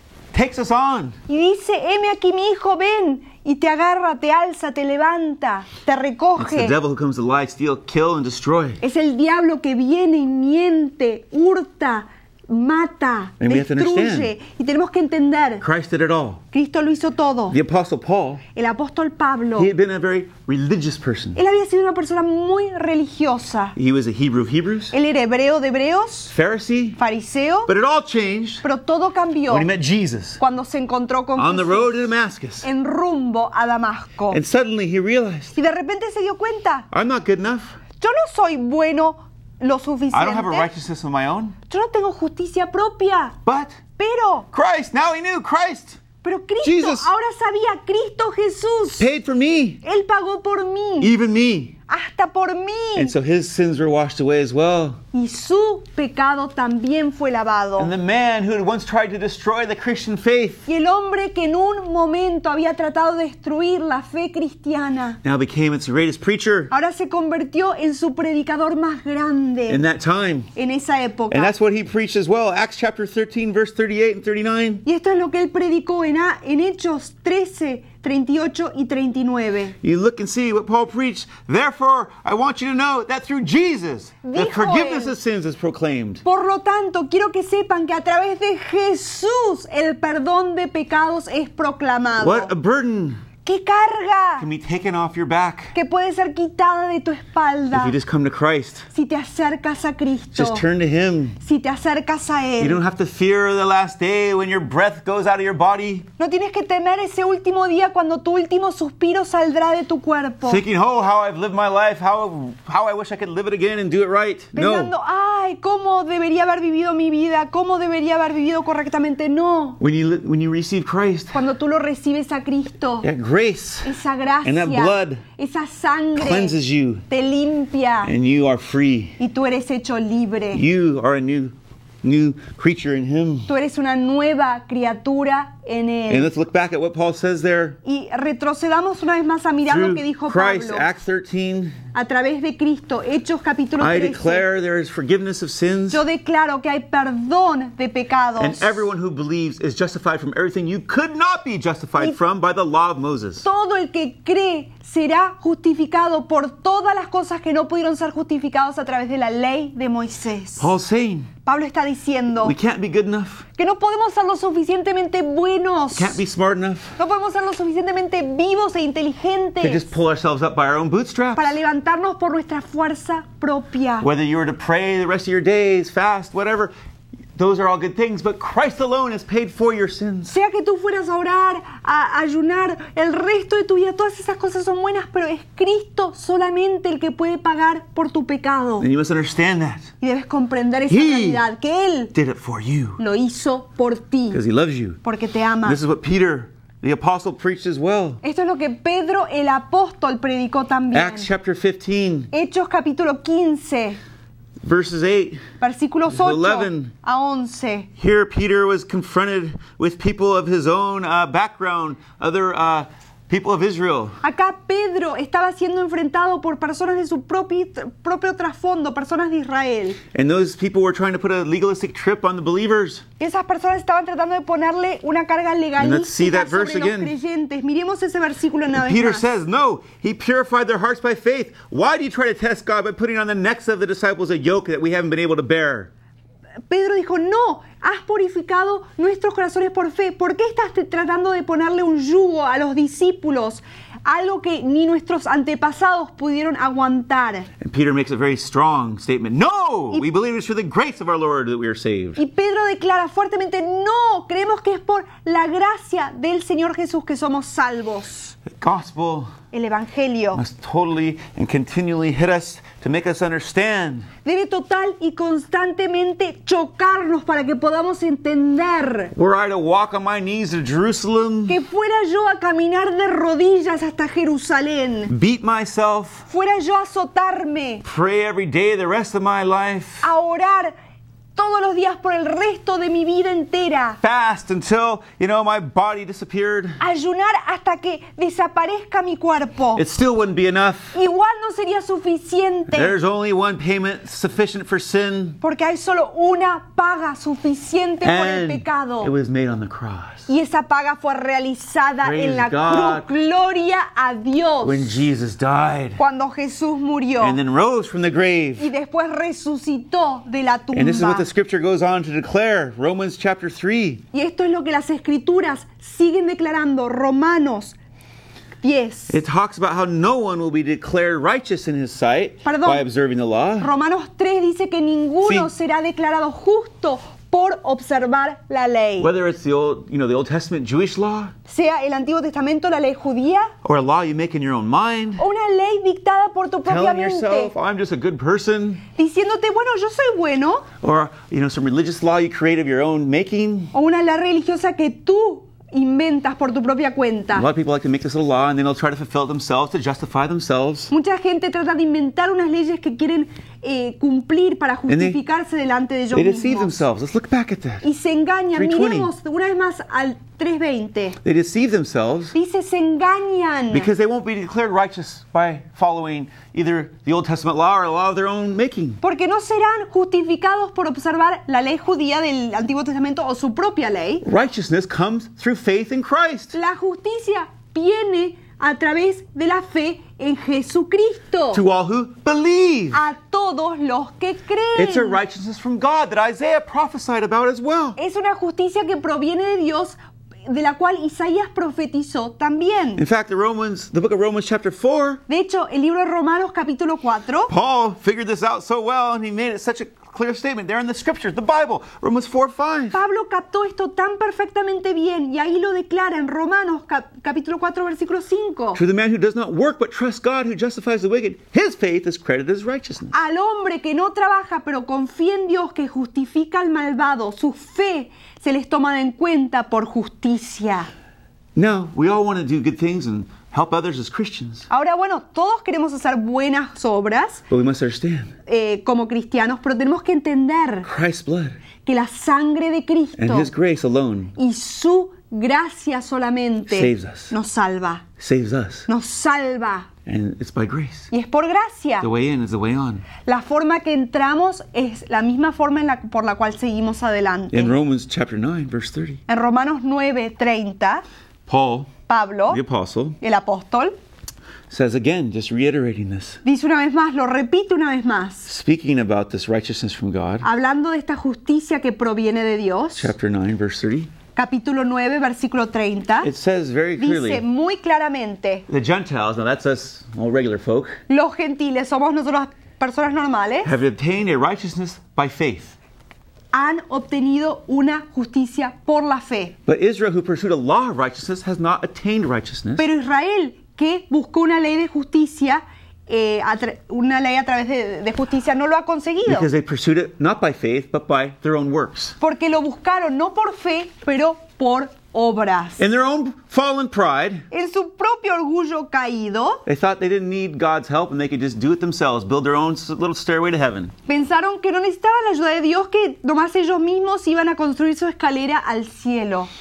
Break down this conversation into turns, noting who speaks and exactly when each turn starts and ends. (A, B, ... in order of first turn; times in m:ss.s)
0:00.3-0:01.2 A
0:01.3-0:06.8 B
0:06.4-0:08.8 A
0:08.8-0:15.6 B
0:13.4-0:14.3 A
0:15.6-0:16.4 A
0:16.5-0:17.6 B
0:17.5-0:18.4 A
0:18.6-0:19.7 B
0:19.6-0:21.4 A
0:21.4-0:23.8 B
0:23.8-0:25.0 A
0:24.9-0:26.3 B
0:26.3-0:27.0 A
0:27.0-0:27.7 B
0:27.7-0:28.6 A
0:28.6-0:29.7 B
0:29.5-0:30.4 A
0:30.4-0:32.1 B
0:31.4-0:32.7 A
0:32.6-0:34.4 B
0:34.3-0:35.6 A
0:35.6-0:36.9 B
0:36.9-0:37.8 A
0:38.0-0:40.7 B
0:40.1-0:41.6 A
0:41.7-0:43.4 B
0:43.4-0:43.8 A
0:44.0-0:44.5 B
0:44.5-0:46.0 A
0:46.2-0:49.1 B
0:46.6-0:47.1 A
0:49.0-0:49.8 A
0:49.8-0:51.1 B
0:51.0-0:51.8 A
0:51.9-0:53.1 B
0:53.0-0:55.0 A
0:55.1-0:57.9 B
0:57.8-1:00.7 A
1:00.7-1:05.2 B
1:05.2-1:06.7 A
1:06.7-1:09.8 B
1:09.7-1:10.5 A
1:10.6-1:11.6 B
1:11.3-1:14.8 A
1:14.8-1:19.8 B
1:19.8-1:26.2 A
1:24.2-1:25.2 B
1:26.2-1:32.5 B
1:32.2-1:33.2 A
1:33.4-1:34.5 B
1:34.4-1:35.7 A
1:35.7-1:38.0 B
1:37.7-1:38.9 A
1:38.9-1:40.6 B
1:40.3-1:41.4 A
1:41.4-1:42.8 B
1:42.6-1:46.1 A
1:46.2-1:50.6 B
1:50.4-1:54.9 A
1:54.6-1:59.8 B
1:59.8-2:01.4 A
2:01.3-2:03.1 B
2:03.0-2:05.2 A
2:03.8-2:06.6 B
2:06.2-2:07.0 A
2:07.1-2:08.1 B
2:08.0-2:09.2 A
2:09.2-2:10.6 B
2:10.5-2:13.5 A
2:13.5-2:16.3 B
2:16.1-2:17.8 A
2:17.8-2:20.9 B
2:19.7-2:21.8 A
2:21.9-2:24.5 B
2:23.8-2:26.0 A
2:25.9-2:28.8 B
2:28.4-2:33.5 A
2:33.4-2:40.7 B
2:40.6-2:41.3 A
2:41.4-2:42.6 B
2:42.4-2:43.4 A
2:43.6-2:46.2 B
2:45.9-2:47.0 A
2:47.0-2:49.9 B
2:49.6-2:51.6 A
2:51.4-2:54.1 B
2:54.0-2:56.7 A
2:57.4-3:00.3 A
3:00.3-3:08.9 B
3:08.8-3:09.9 A
3:10.0-3:12.1 B
3:10.9-3:11.4 A
3:12.1-3:13.0 A
3:13.0-3:14.4 B
3:14.3-3:15.0 A
3:15.0-3:15.8 B
3:15.6-3:18.2 A
3:18.2-3:21.3 B
3:20.9-3:22.3 A
3:22.3-3:24.0 B
3:24.6-3:25.4 A
3:25.6-3:27.9 B
3:26.1-3:26.9 A
3:28.0-3:34.2 A
3:34.2-3:40.0 B
3:40.1-3:43.1 A
3:43.2-3:49.2 B
3:45.8-3:47.2 A
3:48.7-3:55.9 A
3:56.7-4:07.5 B
4:07.6-4:12.2 A
4:12.2-4:18.4 B
4:18.5-4:19.3 A
4:19.5-4:20.4 B
4:20.3-4:24.1 A
4:24.2-4:29.1 B
4:29.1-4:31.6 A
4:31.5-4:35.1 B
4:35.1-4:36.3 A
4:36.3-4:37.8 B
4:37.8-4:40.1 A
4:40.0-4:40.7 B
4:41.4-4:44.0 B
4:44.0-4:46.8 A
4:46.8-4:49.8 B
4:49.8-4:51.0 A
4:50.9-4:52.9 B
4:52.7-4:55.4 A
4:55.4-4:59.1 B
4:58.0-5:00.3 A
5:00.3-5:05.0 B
5:02.0-5:03.1 A
5:04.6-5:06.0 A
5:06.0-5:07.4 B
5:07.2-5:08.7 A
5:08.6-5:11.3 B
5:10.7-5:14.0 A
5:14.1-5:17.8 B
5:18.6-5:19.2 B
5:19.1-5:23.7 A
5:22.4-5:22.8 B
5:23.6-5:29.1 B
5:25.2-5:25.5 A
5:29.0-5:31.3 A
5:31.5-5:33.5 B
5:33.6-5:35.3 A
5:35.2-5:37.5 B
5:36.6-5:38.8 A
5:39.0-5:40.7 B
5:40.8-5:43.7 A
5:43.7-5:47.5 B
5:47.3-5:50.9 A
5:50.9-5:56.8 B
5:54.9-5:55.2 A
5:56.1-5:57.9 A
5:57.8-6:01.2 B
5:58.5-5:59.1 A
6:01.2-6:02.4 A
6:02.3-6:03.9 B
6:03.7-6:09.0 A
6:09.0-6:14.2 B
6:14.2-6:16.6 A
6:16.5-6:21.6 B
6:21.5-6:23.1 A
6:22.9-6:25.2 B
6:24.8-6:28.0 A
6:28.0-6:33.0 B
6:33.0-6:35.2 A
6:35.3-6:37.5 B
6:37.5-6:43.0 A
6:42.9-6:48.8 B
6:48.8-6:53.1 A
6:53.1-7:00.9 B
7:01.6-7:04.7 A
7:04.7-7:07.4 B
7:07.5-7:08.3 A
7:08.5-7:10.9 B
7:10.8-7:11.6 A
7:11.8-7:13.5 B
7:13.2-7:14.3 A
7:14.4-7:18.1 B
7:16.7-7:17.3 A
7:18.2-7:18.9 A
7:18.9-7:19.9 B
7:20.1-7:21.1 A
7:21.1-7:22.1 B
7:22.0-7:23.1 A
7:23.3-7:27.8 B
7:27.5-7:29.2 A
7:29.3-7:31.0 B
7:31.5-7:31.9 A
7:32.1-7:32.6 B
7:32.5-7:33.2 A
7:33.2-7:33.9 B
7:34.7-7:36.4 A
7:36.4-7:38.5 B
7:38.5-7:40.5 A
7:40.4-7:43.1 B
7:43.0-7:44.1 A
7:44.4-7:46.3 B
7:46.2-7:47.4 A
7:47.0-7:48.7 B
7:48.7-7:51.0 A
7:51.1-7:53.7 B
7:53.6-7:55.8 A
7:56.5-7:59.6 B
7:59.7-8:02.9 A
8:02.8-8:09.5 B
8:09.2-8:12.2 A
8:12.2-8:15.8 B
8:15.8-8:17.5 A
8:17.5-8:19.6 B
8:19.7-8:23.9 A
8:24.1-8:29.5 B